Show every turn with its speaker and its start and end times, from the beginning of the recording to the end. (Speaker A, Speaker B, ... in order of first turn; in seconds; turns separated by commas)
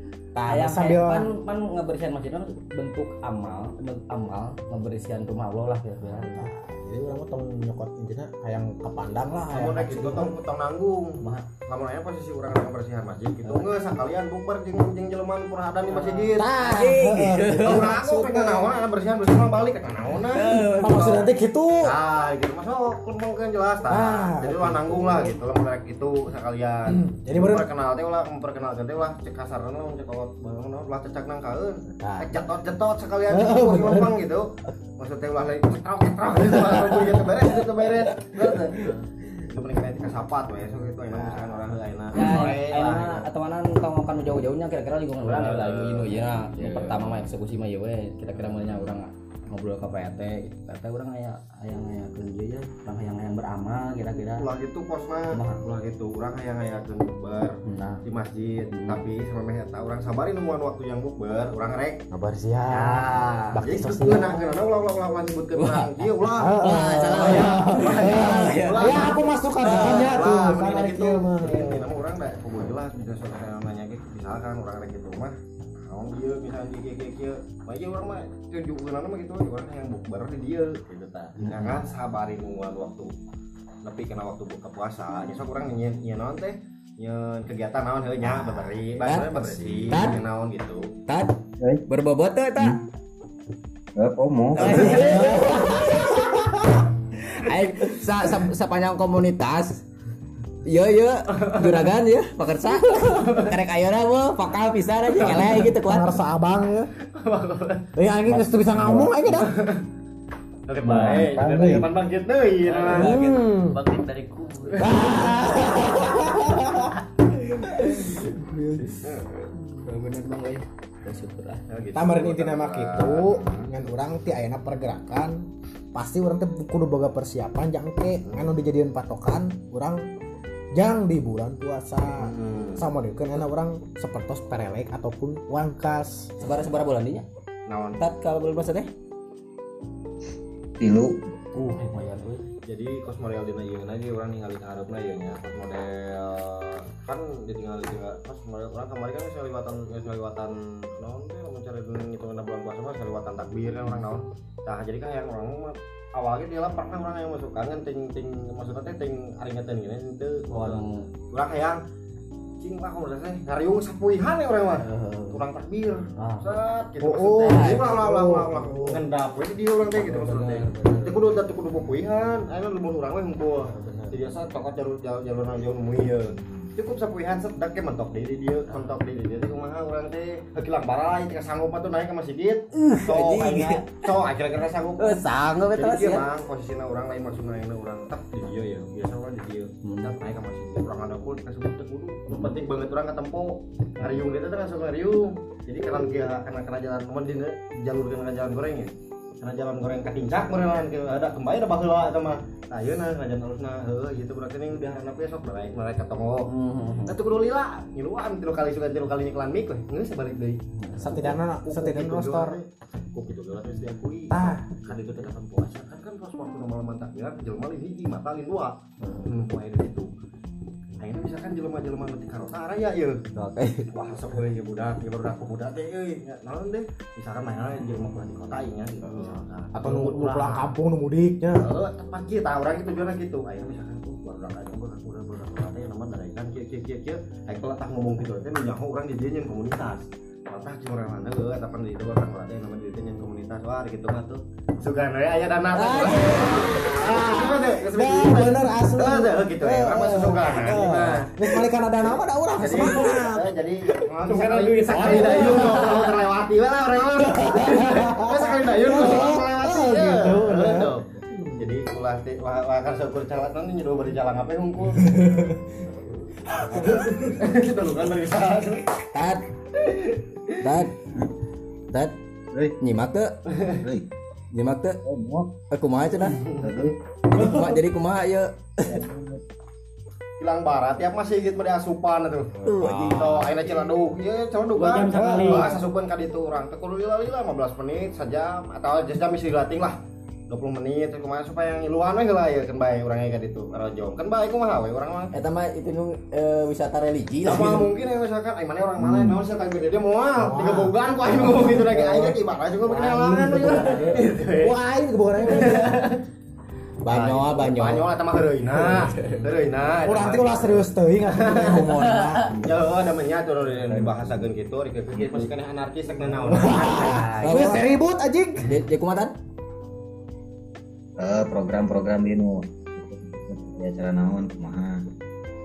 Speaker A: 0.3-1.3, Speaker B: 0.5-6.5, Speaker A: 6.0-10.3, Speaker C: 9.5-16.6, Speaker B: 11.2-11.5, Speaker B: 15.9-17.9, Speaker A: 16.3-18.7, Speaker C: 17.6-43.2, Speaker B: 20.3-21.2, Speaker A: 20.8-21.9, Speaker A: 23.9-25.4, Speaker A: 26.9-27.7, Speaker A: 31.9-32.3, Speaker A: 33.3-34.1, Speaker A: 38.3-38.8, Speaker A: 41.1-41.7, Speaker B: 42.1-54.5, Speaker C: 45.2-46.3, Speaker A: 46.6-47.2, Speaker C: 54.2-62.0, Speaker B: 55.3-55.7, Speaker B: 57.6-58.0, Speaker B: 58.7-59.1, Speaker A: 62.1-64.5, Speaker B: 62.7-63.8, Speaker C: 63.6-83.1, Speaker B: 65.5-70.2, Speaker A: 66.4-71.9, Speaker B: 81.4-81.8, Speaker C: 83.8-90.9, Speaker A: 88.4-90.1, Speaker B: 89.0-89.3, Speaker B: 89.9-90.2, Speaker B: 91.1-91.3, Speaker B: 91.8-92.8, Speaker D: 94.0-95.4, Speaker B: 94.5-96.7, Speaker A: 94.7-96.7, Speaker B: 97.2-99.8, Speaker B: 100.7-106.2, Speaker C: 101.3-101.9, Speaker C: 102.9-103.5, Speaker C: 105.2-105.6, Speaker A: 105.3-106.9, Speaker C: 107.0-107.9, Speaker A: 107.9-109.5, Speaker D: 108.3-109.1, Speaker C: 109.3-109.8, Speaker C: 110.7-113.1, Speaker D: 110.8-111.8, Speaker E: 112.6-116.4, Speaker B: 112.9-113.5, Speaker A: 113.0-113.8, Speaker A: 114.8-117.0, Speaker A: 117.6-119.0, Speaker B: 117.6-119.0, Speaker C: 119.0-119.5, Speaker B: 119.8-121.6, Speaker C: 121.7-123.7, Speaker A: 121.9-130.0, Speaker C: 128.2-128.5, Speaker A: 130.7-136.3, Speaker C: 132.2-132.8, Speaker B: 136.4-137.2, Speaker C: 137.7-138.0, Speaker B: 138.0-138.9, Speaker D: 140.8-141.2, Speaker B: 141.5-142.5, Speaker C: 142.7-161.8, Speaker B: 160.5-161.1, Speaker C: 162.6-206.5, Speaker B: 164.8-165.4, Speaker B: 166.2-166.6, Speaker A: 167.0-169.1, Speaker B: 167.4-167.9, Speaker A: 169.9-171.3, Speaker A: 173.6-174.2, Speaker A: 176.3-176.7, Speaker B: 182.7-184.0, Speaker B: 185.0-186.2, Speaker B: 189.8-190.1, Speaker B: 192.3-192.6, Speaker B: 206.4-207.2, Speaker C: 207.0-210.6, Speaker B: 210.8-211.4, Speaker A: 211.0-212.6, Speaker C: 211.6-220.1, Speaker A: 214.3-214.7, Speaker B: 219.0-219.3, Speaker C: 221.0-223.3, Speaker B: 223.3-223.9, Speaker C: 223.9-230.7, Speaker A: 229.1-231.7, Speaker C: 231.6-261.1, Speaker B: 245.7-246.8, Speaker A: 246.0-256.2, Speaker A: 257.2-261.8, Speaker C: 261.6-268.9, Speaker A: 265.0-265.6, Speaker A: 266.5-267.2, Speaker B: 269.1-269.4, Speaker C: 269.8-270.5, Speaker B: 270.6-271.0, Speaker B: 272.8-273.3, Speaker D: 273.8-274.1, Speaker B: 274.5-275.0, Speaker D: 275.0-275.5, Speaker B: 275.7-276.4, Speaker D: 276.6-277.0, Speaker B: 277.3-279.0, Speaker D: 278.9-279.4, Speaker C: 280.4-289.9, Speaker A: 282.6-283.4, Speaker B: 282.6-283.9, Speaker E: 284.8-285.8, Speaker A: 285.1-285.8, Speaker C: 290.5-295.3, Speaker B: 295.3-297.9, Speaker C: 297.4-304.8, Speaker A: 299.0-299.4, Speaker A: 300.4-306.1, Speaker C: 305.4-306.2, Speaker B: 307.0-308.1, Speaker C: 307.1-317.8, Speaker A: 308.6-309.1, Speaker B: 309.1-309.5, Speaker A: 310.0-312.6, Speaker A: 313.9-314.4, Speaker A: 316.4-318.6, Speaker B: 316.8-317.9, Speaker B: 318.6-319.3, Speaker D: 321.2-325.0